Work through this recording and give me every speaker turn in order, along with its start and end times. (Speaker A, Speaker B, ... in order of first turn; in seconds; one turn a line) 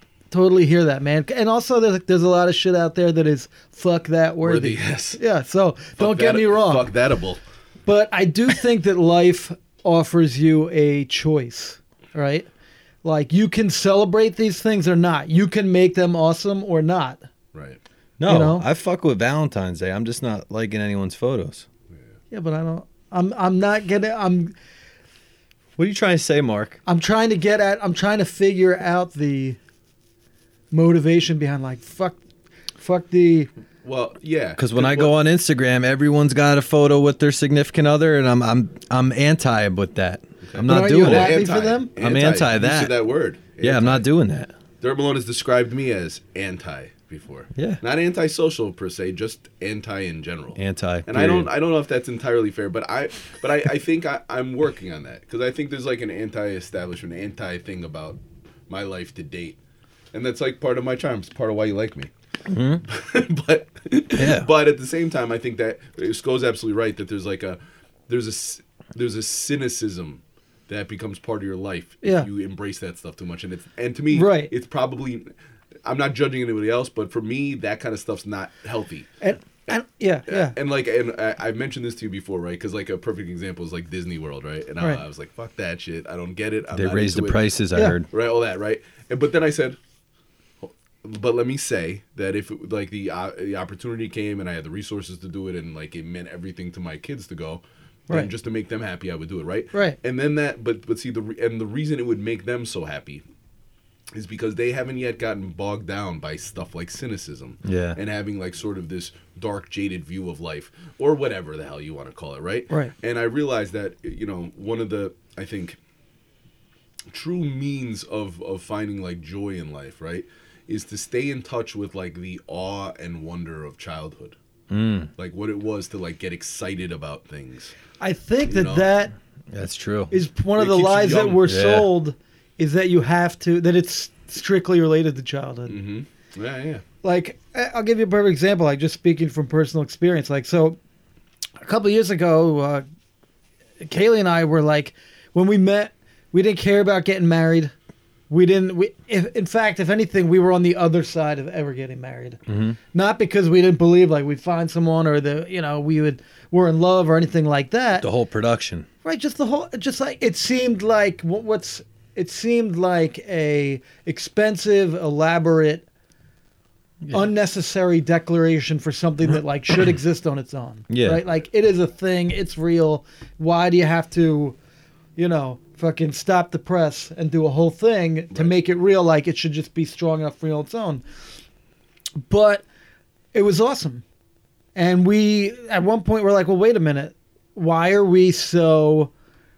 Speaker A: 0.3-6.9
Speaker B: 4.4-5.2
Speaker B: 6.0-7.4
Speaker A: 7.9-12.5
Speaker A: 13.0-17.3
Speaker B: 17.5-17.8
Speaker C: 18.2-21.7
Speaker A: 18.2-18.6
Speaker A: 22.3-24.5
Speaker C: 25.8-26.8
Speaker A: 26.9-29.6
Speaker A: 30.7-32.2
Speaker A: 32.8-33.5
Speaker B: 33.8-35.1
Speaker C: 34.6-41.5
Speaker B: 40.5-44.1
Speaker A: 40.7-41.9
Speaker C: 42.0-43.0
Speaker C: 43.6-44.5
Speaker B: 44.8-59.6
Speaker C: 47.5-47.8
Speaker C: 50.5-51.5
Speaker B: 60.1-62.1
Speaker C: 62.5-62.9
Speaker B: 62.9-75.3
Speaker C: 64.2-64.5
Speaker A: 72.0-72.3
Speaker A: 74.1-74.5
Speaker B: 75.8-79.1
Speaker A: 79.2-80.5
Speaker B: 80.3-87.4
Speaker C: 86.7-88.1
Speaker B: 88.1-89.8
Speaker B: 90.6-103.2
Speaker B: 104.1-115.8
Speaker C: 107.7-108.0
Speaker B: 117.1-124.4
Speaker C: 124.7-125.1
Speaker B: 125.2-127.7
Speaker A: 128.0-129.1
Speaker B: 128.5-128.9
Speaker C: 129.5-130.2
Speaker A: 130.1-135.8
Speaker B: 130.6-131.4
Speaker C: 131.5-131.9
Speaker B: 135.7-136.8
Speaker A: 137.0-140.8
Speaker A: 141.6-142.8
Speaker A: 143.8-147.7
Speaker A: 148.3-152.4
Speaker C: 152.5-152.8
Speaker A: 152.9-158.1
Speaker C: 158.0-158.9
Speaker A: 159.0-165.9
Speaker A: 167.1-174.6
Speaker C: 170.9-171.2
Speaker A: 175.2-181.0
Speaker A: 182.2-182.7
Speaker A: 183.3-184.0
Speaker A: 184.8-189.1